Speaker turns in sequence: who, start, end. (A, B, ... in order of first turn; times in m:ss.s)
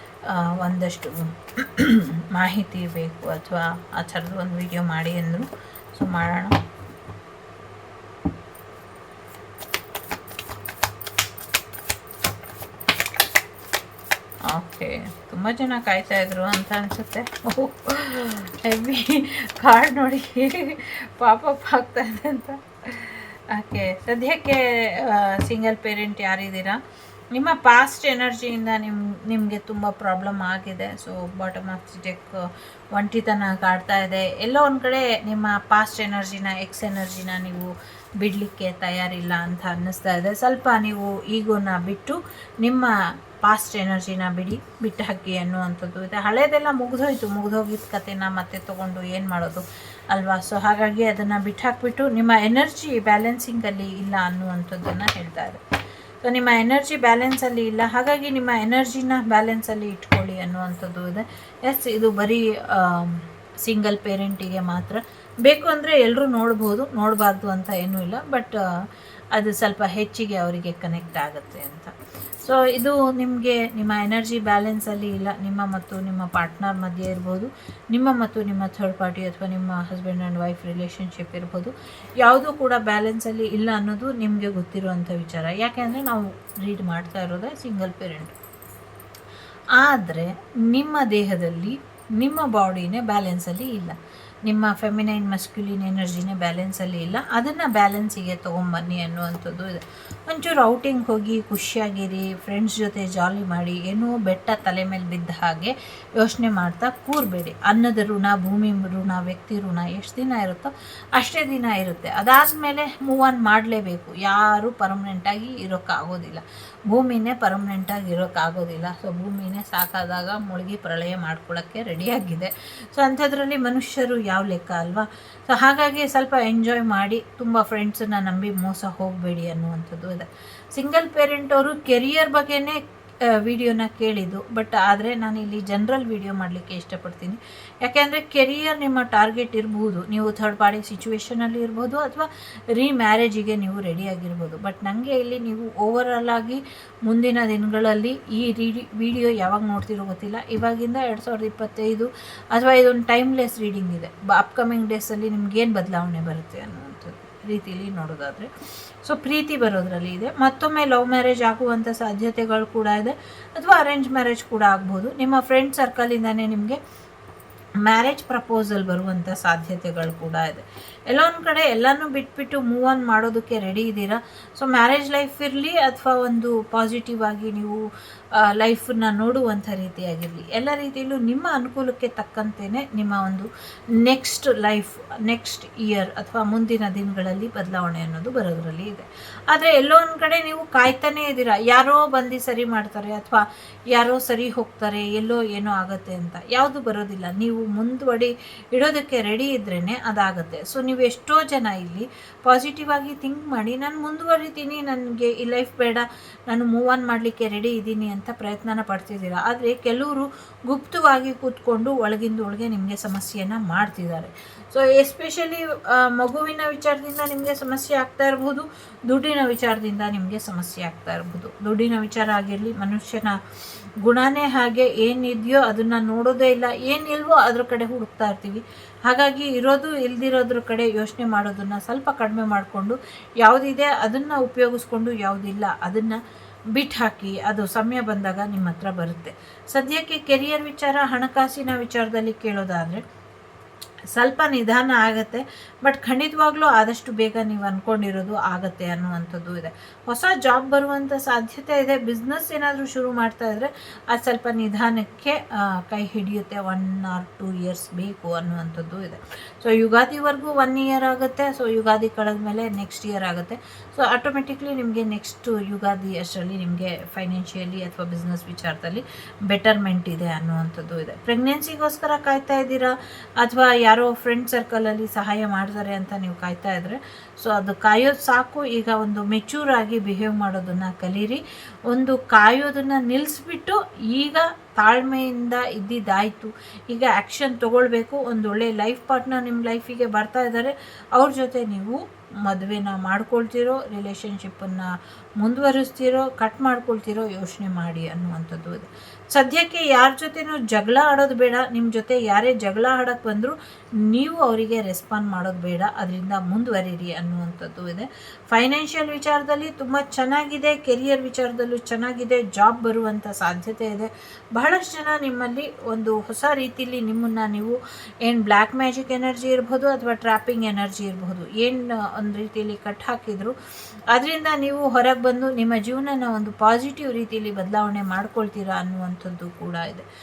0:00.3-0:06.6 A
0:14.5-0:26.8 A
0:27.3-0:55.6 A
0:56.2-1:08.6 A
1:09.3-1:28.3 A
1:29.8-2:38.5 A
2:39.0-2:46.8 A
2:47.8-3:03.5 A
3:04.0-3:43.4 A
3:44.0-3:56.2 A
3:56.7-4:03.0 A
4:04.1-5:23.5 A
5:24.1-5:30.1 A